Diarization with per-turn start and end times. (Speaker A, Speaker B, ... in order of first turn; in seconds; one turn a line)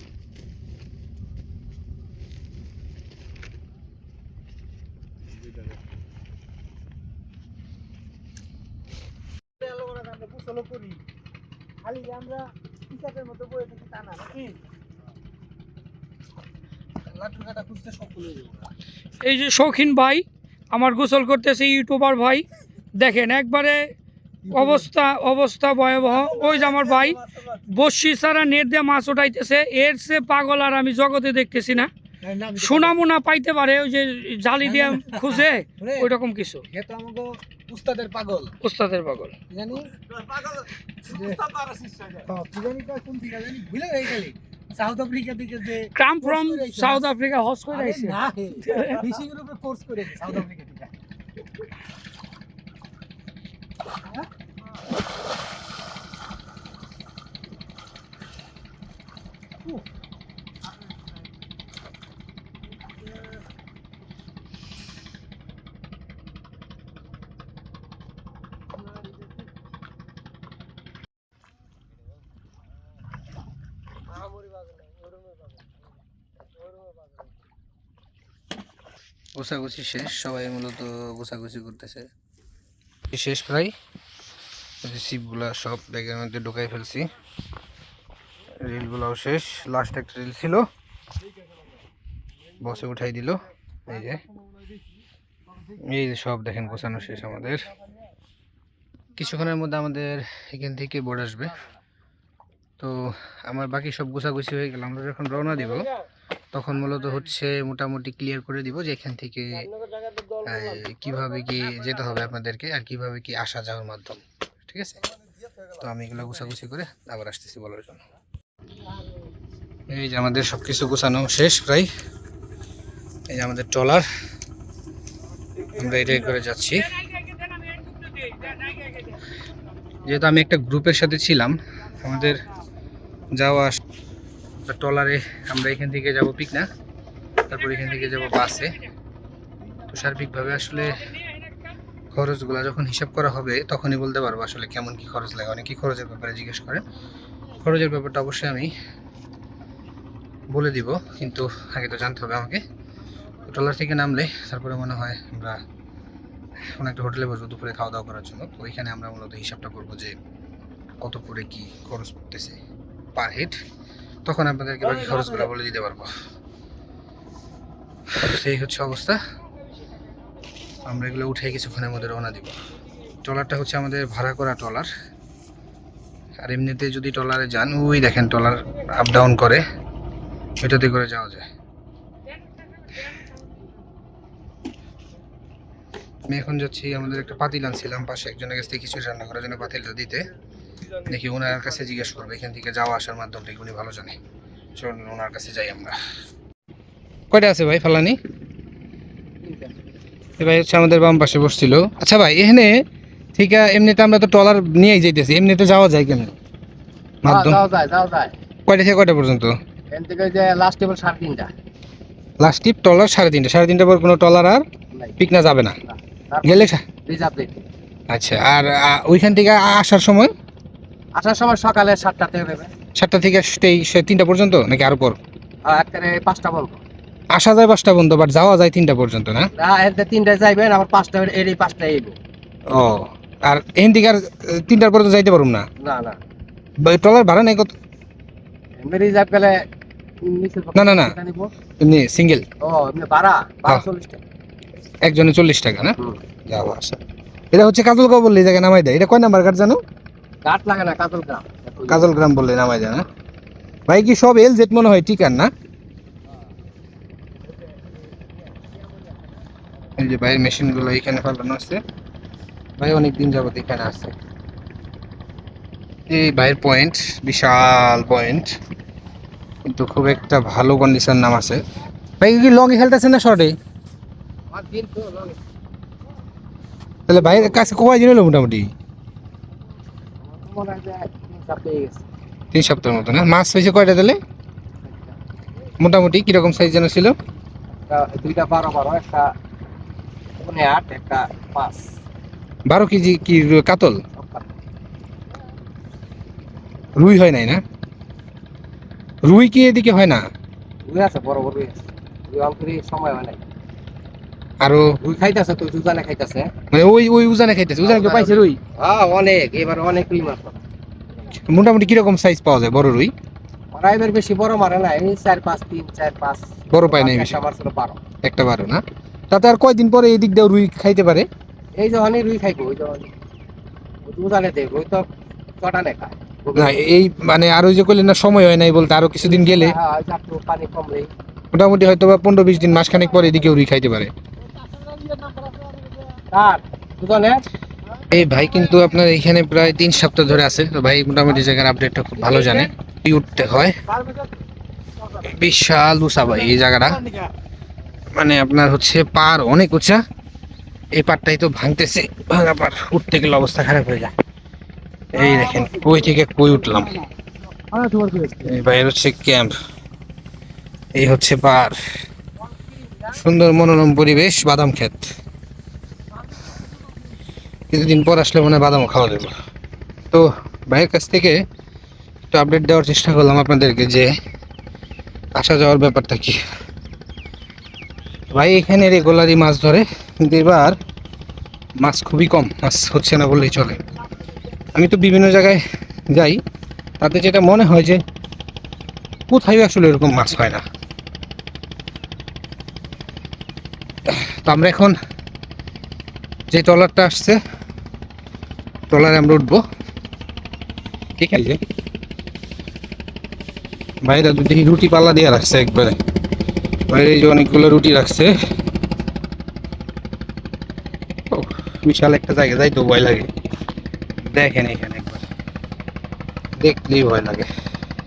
Speaker A: 5.3-5.8
Speaker B: 9.6-11.0
Speaker B: 11.8-14.6
Speaker B: 17.1-18.7
Speaker C: 19.2-23.9
Speaker B: 24.4-24.9
Speaker C: 24.5-31.9
Speaker A: 26.1-27.6
Speaker B: 32.2-33.0
Speaker C: 32.5-36.6
Speaker B: 34.6-36.1
Speaker B: 36.7-38.5
Speaker C: 38.6-39.3
Speaker B: 39.5-39.9
Speaker A: 40.0-42.3
Speaker B: 41.0-41.4
Speaker B: 42.3-47.0
Speaker C: 46.0-49.0
Speaker B: 47.7-50.9
Speaker A: 74.2-75.1
Speaker B: 79.3-82.1
Speaker B: 83.1-83.7
Speaker B: 84.8-87.1
Speaker B: 88.6-90.7
Speaker B: 92.6-94.2
Speaker A: 94.2-94.5
Speaker B: 95.8-97.7
Speaker B: 99.2-101.5
Speaker B: 102.8-105.9
Speaker B: 106.5-109.7
Speaker A: 110.1-110.8
Speaker B: 110.4-115.0
Speaker B: 115.8-118.0
Speaker B: 119.9-121.9
Speaker B: 123.3-124.1
Speaker A: 125.5-126.2
Speaker B: 125.7-126.9
Speaker C: 126.7-129.2
Speaker B: 130.0-132.4
Speaker B: 133.3-133.8
Speaker B: 134.6-136.7
Speaker B: 137.5-138.8
Speaker C: 137.5-138.9
Speaker B: 139.9-141.0
Speaker C: 140.8-141.8
Speaker B: 142.1-146.8
Speaker B: 147.6-148.7
Speaker B: 150.5-152.6
Speaker B: 153.4-155.6
Speaker B: 156.6-160.2
Speaker B: 161.0-162.6
Speaker B: 163.2-163.6
Speaker B: 164.2-166.1
Speaker B: 168.1-169.2
Speaker B: 170.8-172.6
Speaker B: 173.2-174.9
Speaker B: 176.4-179.6
Speaker B: 180.6-181.5
Speaker C: 182.8-183.3
Speaker B: 186.3-190.3
Speaker B: 191.1-194.2
Speaker B: 194.8-196.0
Speaker B: 197.3-198.2
Speaker D: 199.4-199.8
Speaker B: 200.4-202.8
Speaker B: 203.3-206.3
Speaker B: 207.2-207.6
Speaker D: 207.2-208.3
Speaker B: 208.7-209.6
Speaker D: 209.9-211.5
Speaker B: 212.4-214.7
Speaker D: 214.9-215.2
Speaker B: 215.2-215.8
Speaker D: 215.8-217.7
Speaker B: 216.4-216.8
Speaker B: 218.1-220.3
Speaker D: 221.2-222.7
Speaker B: 222.9-225.2
Speaker D: 225.6-226.8
Speaker B: 227.3-229.5
Speaker D: 229.6-232.2
Speaker B: 232.7-235.7
Speaker D: 235.8-236.2
Speaker B: 236.8-237.7
Speaker D: 238.8-239.6
Speaker D: 240.2-241.5
Speaker B: 240.7-241.1
Speaker B: 241.8-242.4
Speaker D: 242.6-244.2
Speaker B: 245.0-245.9
Speaker B: 246.5-247.0
Speaker B: 247.5-249.8
Speaker D: 250.4-252.1
Speaker B: 251.9-253.0
Speaker B: 253.9-255.5
Speaker B: 260.0-261.8
Speaker B: 262.8-264.1
Speaker B: 266.1-268.5
Speaker B: 269.6-271.6
Speaker B: 272.2-273.6
Speaker D: 274.5-275.4
Speaker B: 277.1-278.7
Speaker D: 280.2-282.1
Speaker B: 282.5-284.2
Speaker D: 284.8-285.2
Speaker B: 285.8-287.1
Speaker D: 287.9-289.3
Speaker D: 290.4-291.9
Speaker B: 292.7-294.0
Speaker D: 294.1-294.5
Speaker B: 296.9-297.6
Speaker B: 299.2-300.2
Speaker D: 300.9-303.4
Speaker B: 304.6-304.9
Speaker D: 305.0-306.5
Speaker B: 306.7-308.6
Speaker D: 307.8-310.6
Speaker B: 311.3-313.1
Speaker D: 313.7-318.0
Speaker B: 316.7-317.4
Speaker B: 318.2-321.3
Speaker D: 321.8-323.1
Speaker D: 324.1-325.1
Speaker D: 325.6-326.8
Speaker B: 326.5-329.8
Speaker D: 329.2-331.1
Speaker B: 331.5-334.1
Speaker D: 336.3-337.4
Speaker B: 338.1-343.8
Speaker D: 342.2-342.7
Speaker B: 345.2-347.0
Speaker B: 348.1-350.0
Speaker B: 350.9-354.1
Speaker B: 355.1-356.9
Speaker D: 357.7-358.2
Speaker B: 358.4-359.5
Speaker B: 360.9-361.8
Speaker B: 363.1-365.1
Speaker B: 367.7-369.3
Speaker B: 370.1-371.4
Speaker B: 372.3-374.1
Speaker B: 375.3-376.4
Speaker B: 378.3-380.8
Speaker B: 381.8-383.8
Speaker B: 384.7-386.4
Speaker B: 387.0-388.0
Speaker B: 389.3-390.6
Speaker B: 394.1-395.0
Speaker B: 396.5-397.4
Speaker B: 398.9-399.6
Speaker B: 401.2-401.6
Speaker B: 404.0-406.0
Speaker B: 406.9-408.3
Speaker B: 411.3-413.3
Speaker B: 414.2-415.3
Speaker B: 416.6-417.5